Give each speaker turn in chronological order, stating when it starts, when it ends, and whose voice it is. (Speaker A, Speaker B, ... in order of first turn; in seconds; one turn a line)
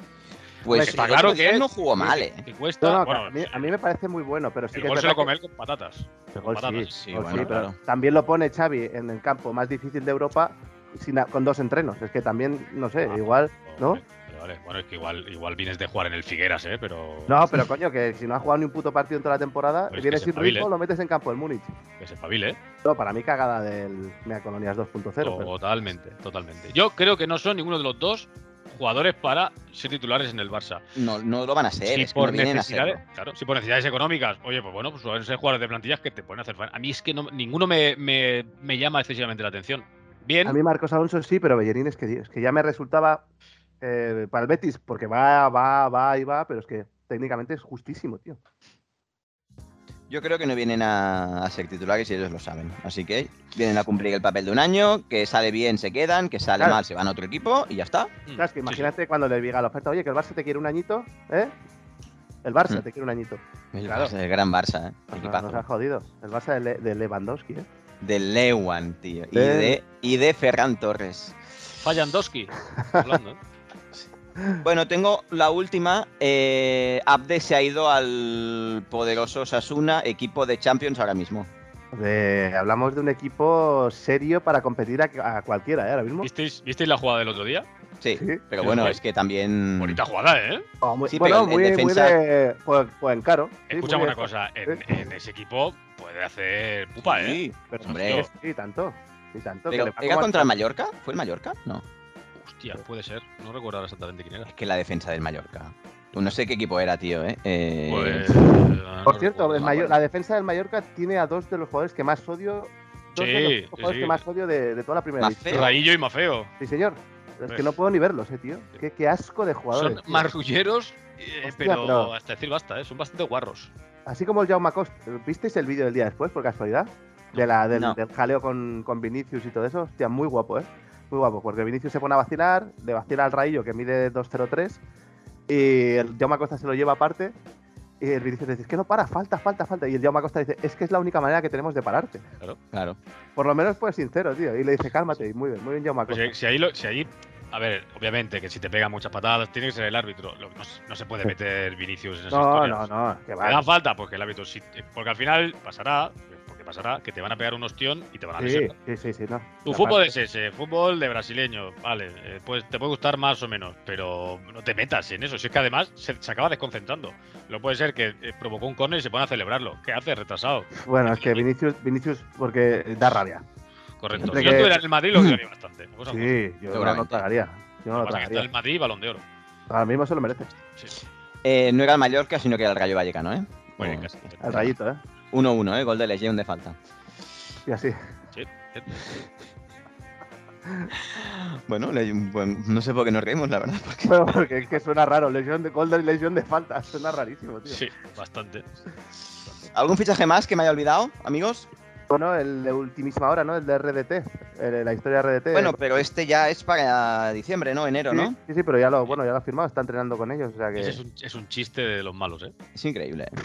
Speaker A: 0.6-2.4
Speaker B: 0.7-3.7
Speaker C: 0.7-1.2
Speaker C: 2.8-5.3
Speaker B: 4.7-7.5
Speaker C: 6.3-14.0
Speaker A: 6.9-7.7
Speaker B: 13.0-17.6
Speaker C: 17.3-21.7
Speaker B: 19.9-20.7
Speaker B: 22.0-22.6
Speaker C: 22.8-25.5
Speaker B: 25.2-30.8
Speaker A: 30.9-33.0
Speaker B: 31.8-40.6
Speaker C: 40.4-43.2
Speaker C: 43.8-48.4
Speaker A: 50.1-58.1
Speaker B: 58.2-58.9
Speaker C: 58.4-61.5
Speaker C: 62.4-64.1
Speaker A: 63.7-65.6
Speaker C: 65.1-67.7
Speaker A: 68.0-71.5
Speaker C: 69.3-69.8
Speaker B: 71.8-73.4
Speaker C: 72.7-73.0
Speaker A: 74.6-81.5
Speaker C: 81.9-86.3
Speaker B: 86.2-87.7
Speaker A: 88.0-90.0
Speaker C: 88.2-88.4
Speaker B: 88.6-89.0
Speaker B: 89.8-90.7
Speaker C: 90.8-95.0
Speaker A: 91.1-92.2
Speaker B: 93.7-98.3
Speaker A: 97.0-98.2
Speaker C: 97.7-100.5
Speaker A: 99.7-101.8
Speaker B: 102.4-104.5
Speaker A: 104.5-108.4
Speaker B: 107.9-109.6
Speaker C: 109.0-115.7
Speaker A: 109.5-110.0
Speaker B: 113.2-114.2
Speaker A: 115.2-115.7
Speaker B: 115.5-116.5
Speaker C: 116.6-120.3
Speaker B: 119.7-123.7
Speaker C: 121.4-122.1
Speaker C: 124.0-134.8
Speaker A: 127.7-128.0
Speaker C: 135.5-137.3
Speaker C: 138.0-142.2
Speaker A: 142.7-143.0
Speaker C: 143.3-146.3
Speaker B: 146.1-152.9
Speaker C: 152.3-153.6
Speaker B: 153.4-158.7
Speaker C: 158.4-160.1
Speaker B: 159.6-171.4
Speaker C: 170.8-173.4
Speaker B: 174.0-176.3
Speaker A: 174.1-174.5
Speaker C: 174.3-174.8
Speaker A: 175.1-175.4
Speaker C: 176.1-178.5
Speaker A: 176.7-177.2
Speaker B: 177.9-179.2
Speaker C: 179.7-180.5
Speaker A: 181.4-184.7
Speaker B: 183.8-184.5
Speaker C: 184.4-185.0
Speaker A: 185.3-186.8
Speaker C: 187.7-188.0
Speaker B: 188.3-189.0
Speaker C: 190.7-190.9
Speaker A: 191.0-194.3
Speaker C: 194.0-197.8
Speaker B: 197.7-198.8
Speaker A: 199.7-201.7
Speaker C: 202.1-205.8
Speaker A: 205.5-208.3
Speaker C: 208.1-211.0
Speaker B: 210.8-212.5
Speaker A: 212.7-213.3